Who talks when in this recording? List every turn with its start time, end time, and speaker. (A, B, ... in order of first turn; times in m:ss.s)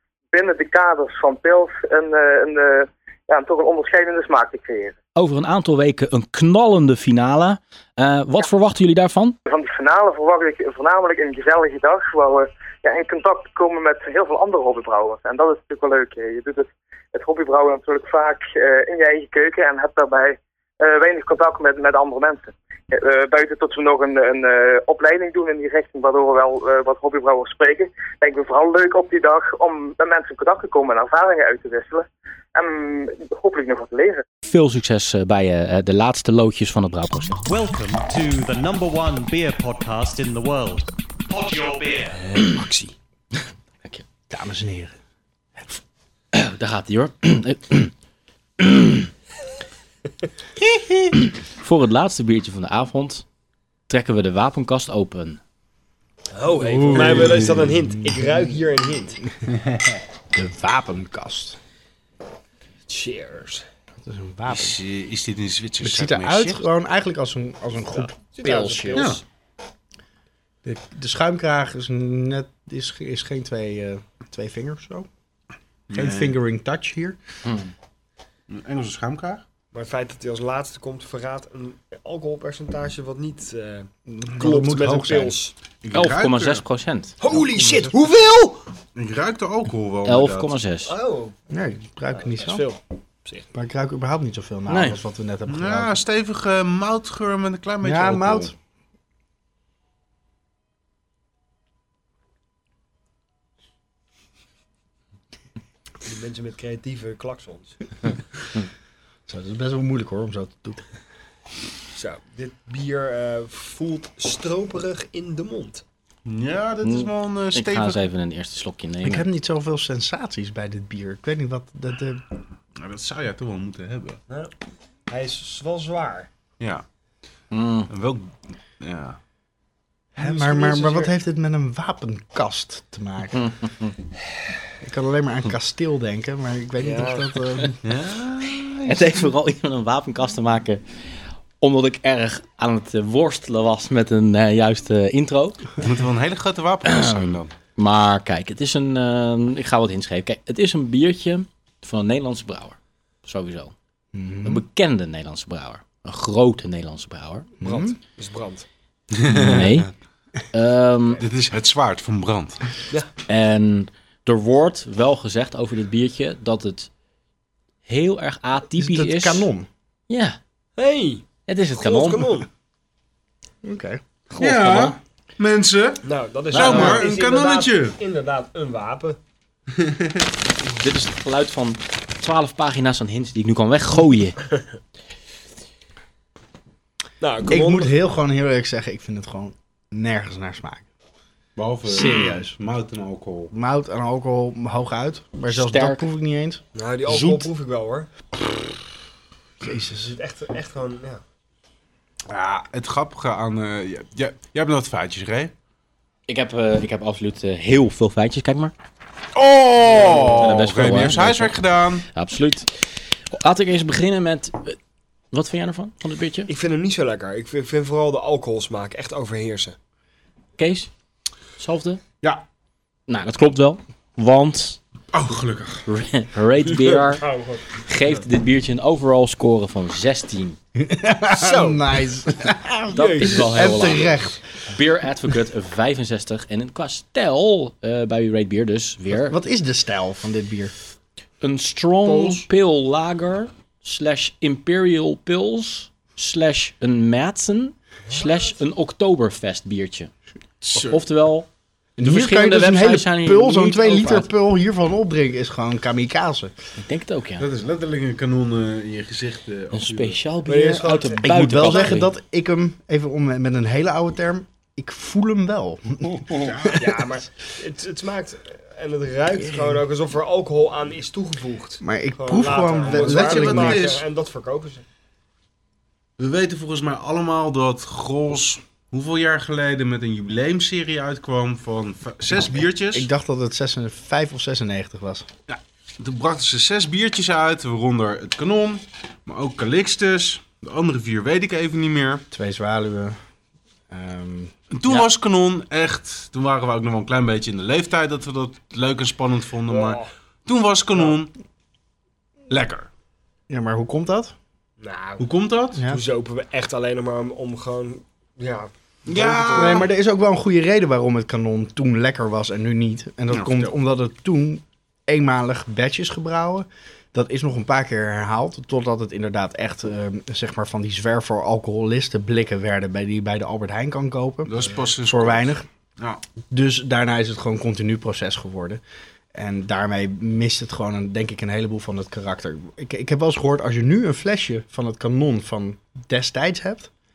0:00.3-0:04.9 A
0:05.2-0:09.4 B
0:09.4-0:34.2 A
0:34.4-0:37.4 B
0:37.4-0:42.4 C
0:42.3-0:42.9 D
0:44.3-0:45.0 E
0:46.3-0:47.9 B
0:48.6-0:49.1 B
0:50.6-0:53.2 B
0:53.9-0:55.4 B
0:56.3-0:59.2 D
0:56.6-0:57.4 E
0:56.9-0:57.4 F
1:00.3-1:01.6 E
1:02.9-1:03.6 D
1:04.0-1:04.8 E
1:04.5-1:06.6 F
1:05.8-1:08.2 E
1:07.9-1:09.2 D
1:08.4-1:09.0 B
1:08.9-1:09.2 F
1:10.6-1:15.1 E
1:15.9-1:16.4 F
1:15.9-1:17.2 E
1:17.4-1:17.7 B
1:18.5-1:19.4 F
1:19.7-1:25.5 D
1:24.1-1:25.4 E
1:25.8-1:26.6 F
1:25.9-1:27.2 B
1:27.2-1:28.6 D
1:29.0-1:30.6 F
1:30.0-1:30.9 B
1:30.8-1:31.4 D
1:31.5-1:32.6 E
1:32.2-1:33.5 D
1:33.5-1:36.0 E
1:34.7-1:35.0 B
1:35.5-1:38.5 F
1:37.8-1:38.5 E
1:46.0-1:47.8 D
1:49.3-1:50.8 E
1:51.9-1:55.8 D
1:56.2-1:58.0 F
1:56.8-1:59.2 B
1:59.0-2:02.2 E
2:02.8-2:04.2 F
2:05.1-2:06.3 D
2:06.6-2:06.8 F
2:07.5-2:07.9 B
2:07.9-2:09.2 F
2:10.2-2:13.5 E
2:10.2-2:11.1 D
2:13.4-2:13.9 B
2:14.8-2:17.8 E
2:16.8-2:17.2 D
2:17.8-2:18.9 F
2:18.8-2:20.8 B
2:21.6-2:25.7 B
2:25.8-2:27.5 F
2:26.8-2:33.7 B
2:34.1-2:34.6 E
2:34.4-2:37.5 B
2:37.6-2:38.0 E
2:37.6-2:38.6 D
2:39.1-2:39.8 F
2:39.3-2:39.9 B
2:40.5-2:41.2 B
2:41.2-2:42.7 F
2:43.3-2:46.9 B
2:47.8-2:49.5 B
2:48.8-2:49.7 E
2:50.1-2:50.4 B
2:50.8-2:51.2 D
2:51.5-2:52.4 B
2:51.8-2:52.5 D
2:53.6-2:54.0 E
2:54.3-2:55.0 B
2:54.4-2:58.0 F
2:56.0-2:59.2 D
2:56.5-2:57.0 B
2:59.8-3:00.2 F
3:00.8-3:04.4 B
3:07.2-3:07.9 D
3:07.4-3:10.8 E
3:11.6-3:13.5 F
3:11.9-3:12.5 E
3:13.5-3:16.6 E
3:15.5-3:16.1 B
3:16.7-3:18.1 D
3:19.6-3:20.2 E
3:20.0-3:21.2 D
3:22.3-3:25.5 F
3:26.3-3:28.7 B
3:29.3-3:32.0 F
3:29.9-3:30.4 D
3:30.2-3:34.8 B
3:35.3-3:36.5 B
3:36.5-3:39.8 D
3:40.6-3:40.9 B
3:41.6-3:42.0 B
3:43.1-3:44.8 B
3:45.1-3:45.8 F
3:45.8-3:47.2 B
3:46.7-3:47.6 D
3:47.8-3:50.6 B
3:50.8-3:54.4 E
3:51.3-3:51.8 D
3:52.9-3:53.8 D
3:52.9-3:54.2 B
3:54.7-3:59.4 B
3:59.1-4:00.7 E
4:01.4-4:10.1 B
4:02.1-4:02.4 F
4:10.6-4:11.0 F
4:10.7-4:11.5 B
4:12.0-4:16.5 E
4:12.0-4:14.3 B
4:16.8-4:17.4 B
4:17.4-4:20.2 F
4:19.7-4:22.1 B
4:20.4-4:21.6 D
4:21.2-4:27.0 E
4:26.3-4:26.8 F
4:26.8-4:34.8 D
4:31.8-4:33.9 E
4:32.8-4:34.0 F
4:36.2-4:43.1 F
4:42.9-4:45.3 E
4:45.5-4:52.2 F
4:52.3-4:53.2 E
4:53.9-4:54.5 E
4:54.7-5:01.3 F
4:59.7-5:00.1 D
5:02.5-5:02.9 F
5:03.5-5:04.3 E
5:04.8-5:05.3 D
5:05.2-5:05.8 F
5:05.8-5:09.9 D
5:09.0-5:09.9 F
5:09.5-5:25.6 E
5:13.3-5:13.7 F
5:24.4-5:26.2 F
5:26.5-5:28.8 E
5:29.3-5:36.9 E